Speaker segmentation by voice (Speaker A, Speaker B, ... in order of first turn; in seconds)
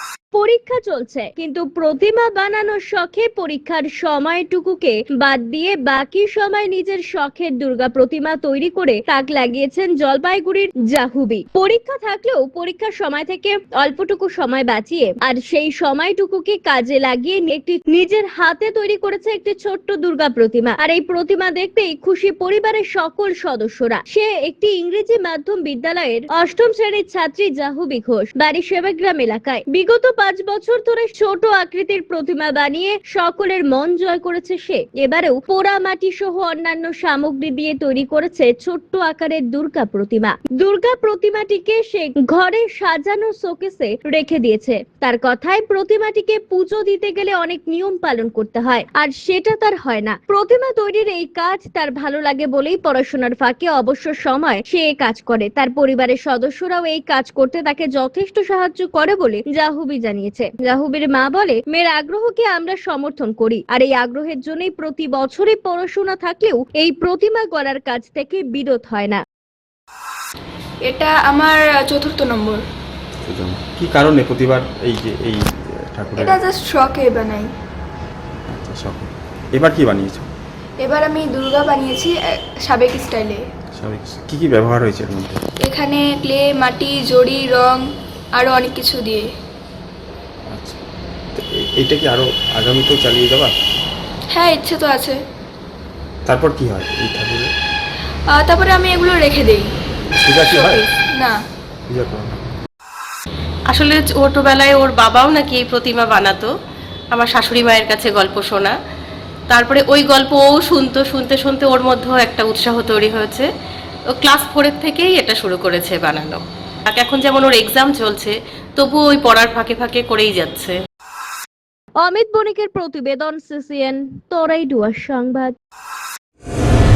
Speaker A: 0.3-69.2, 122.0-125.6
Speaker B: 70.8-72.6, 76.2-77.5, 80.8-83.4, 85.6-87.8, 88.3-89.2, 94.3-95.2, 98.3-99.7, 100.5-101.4
Speaker C: 73.2-76.4, 78.5-80.3, 83.7-85.4, 90.5-90.8, 91.3-93.5, 96.2-97.5, 100.1-100.8, 101.9-102.4
Speaker D: 103.7-106.5, 107.1-108.7, 109.5-113.5, 114.1-120.8